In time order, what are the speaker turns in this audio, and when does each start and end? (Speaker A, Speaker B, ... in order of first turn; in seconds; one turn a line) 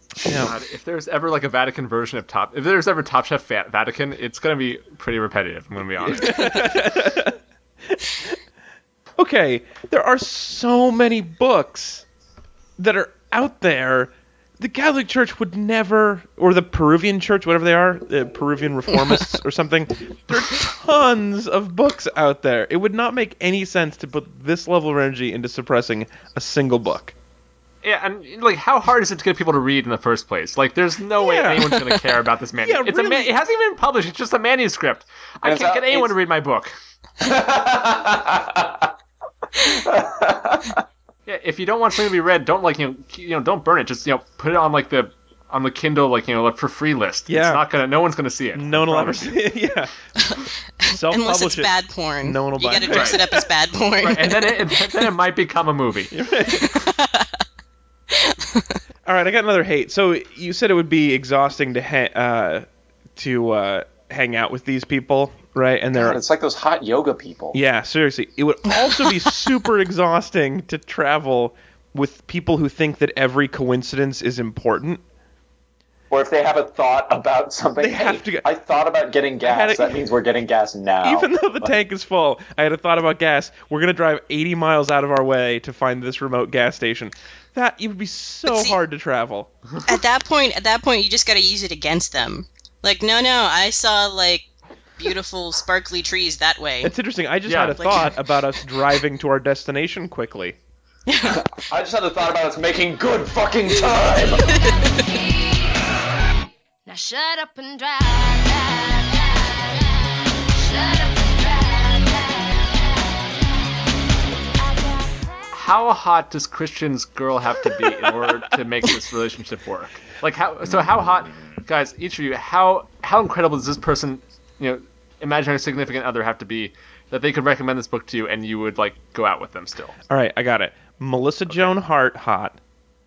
Speaker A: 0.3-0.5
Speaker B: 0.4-6.7
Speaker A: 6.0-8.3
Speaker A: 9.2-12.1
Speaker A: 12.8-27.1
Speaker B: 27.8-36.7
Speaker A: 31.2-32.0
Speaker A: 32.6-33.3
Speaker C: 35.4-36.1
Speaker C: 37.2-38.9
Speaker C: 39.5-40.8
Speaker B: 41.3-49.4
Speaker A: 47.3-47.6
Speaker A: 48.5-49.9
Speaker D: 50.2-55.0
Speaker A: 50.9-53.3
Speaker B: 52.8-53.3
Speaker B: 54.0-56.1
Speaker A: 56.1-56.7
Speaker D: 56.5-57.4
Speaker D: 58.1-58.8
Speaker A: 59.1-66.2
Speaker C: 65.9-67.6
Speaker A: 67.5-75.0
Speaker C: 76.1-81.7
Speaker A: 77.8-78.5
Speaker A: 79.4-80.0
Speaker A: 81.0-89.5
Speaker D: 88.5-88.8
Speaker D: 89.8-94.5
Speaker D: 95.0-96.9
Speaker A: 96.8-100.6
Speaker B: 97.5-98.1
Speaker D: 97.8-98.1
Speaker D: 101.1-101.5
Speaker C: 101.2-104.5
Speaker E: 104.4-106.0
Speaker D: 104.5-104.8
Speaker E: 106.9-113.8
Speaker E: 114.6-115.4
Speaker B: 115.5-130.0
Speaker C: 120.7-121.2
Speaker A: 130.1-132.6